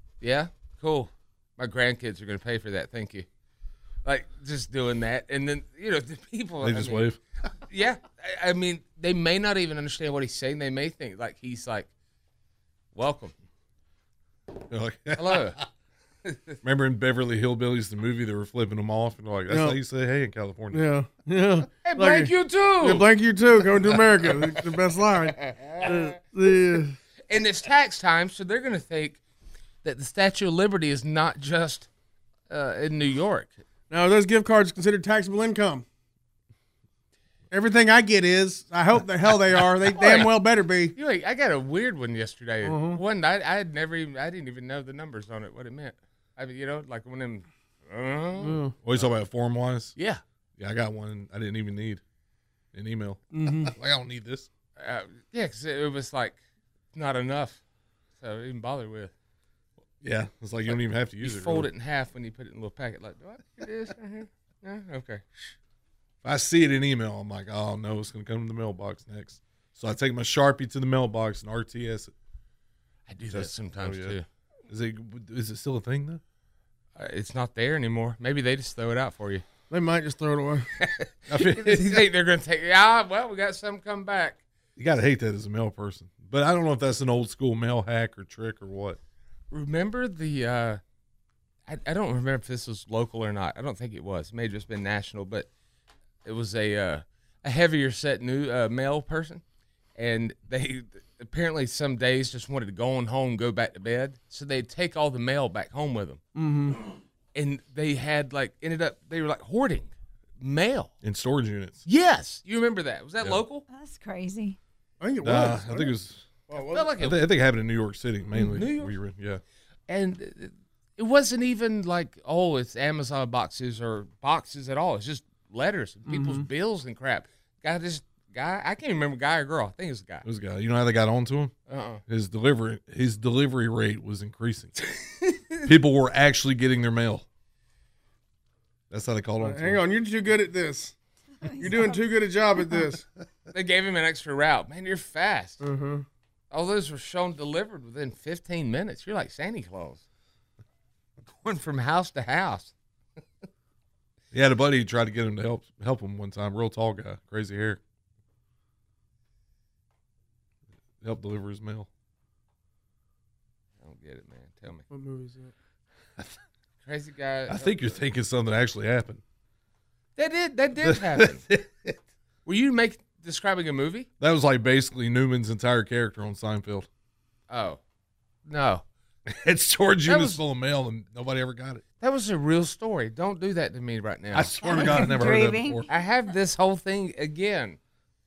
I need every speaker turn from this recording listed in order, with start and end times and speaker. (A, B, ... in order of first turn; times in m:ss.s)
0:00.2-0:03.3 A
0:04.0-0:07.1 A
0:06.6-0:07.2 B
0:07.7-0:11.9 A
0:13.0-0:13.3 A
0:14.6-0:15.6 B
0:15.2-0:15.6 A
0:16.2-0:16.6 A
0:16.6-0:20.8 B
0:19.5-0:19.8 C
0:20.7-0:27.0 C
0:21.8-0:23.1 A
0:25.4-0:26.1 A
0:27.3-0:29.2 A
0:29.8-0:31.9 A
0:32.5-0:33.5 A
0:33.9-0:35.8 C
0:37.5-0:41.0 C
0:39.9-0:40.3 A
0:40.9-0:48.6 A
0:42.6-0:43.0 C
0:48.4-0:48.8 C
0:48.8-0:49.9 B
0:50.0-0:50.2 A
0:50.6-0:52.0 B
0:52.7-0:54.5 B
0:53.3-0:53.8 C
0:54.8-0:56.4 A
0:56.9-0:57.6 A
0:58.2-0:59.1 A
1:00.0-1:01.7 B
1:00.7-1:05.5 A
1:06.2-1:12.1 B
1:13.1-1:14.2 A
1:13.3-1:14.2 B
1:14.7-1:16.2 B
1:17.0-1:19.5 A
1:19.7-1:20.7 C
1:20.8-1:24.4 A
1:21.3-1:22.0 B
1:24.8-1:29.0 B
1:29.5-1:30.8 A
1:31.7-1:35.5 A
1:36.2-1:39.4 A
1:40.0-1:46.2 A
1:46.4-1:46.8 C
1:47.4-1:50.9 A
1:51.0-1:51.8 B
1:51.9-1:53.6 A
1:53.7-1:54.6 D
1:55.0-1:55.9 C
1:55.2-1:56.3 B
1:56.5-1:56.9 C
1:56.5-1:57.2 A
1:57.0-1:59.4 B
1:58.4-1:58.9 A
1:59.9-2:10.3 A
2:06.1-2:06.5 C
2:10.2-2:11.5 B
2:11.7-2:12.0 A
2:12.1-2:14.7 B
2:15.2-2:15.6 A
2:15.6-2:17.2 B
2:18.9-2:19.8 B
2:19.4-2:20.9 C
2:21.4-2:22.0 D
2:21.6-2:23.0 C
2:23.5-2:25.6 A
2:25.6-2:26.1 C
2:26.5-2:30.0 A
2:31.4-2:32.7 A
2:34.3-2:37.8 B
2:41.0-2:41.9 B
2:43.8-2:44.8 A
2:44.9-2:45.5 C
2:46.8-2:48.0 A
2:47.5-2:49.2 B
2:50.2-2:51.4 A
2:50.8-2:52.0 B
2:52.4-2:54.1 A
2:54.2-2:56.9 B
2:57.5-2:57.8 A
2:58.5-2:58.8 A
2:59.3-3:01.8 B
3:00.1-3:00.4 A
3:02.0-3:04.6 A
3:04.3-3:05.9 B
3:04.7-3:05.8 D
3:05.9-3:07.8 A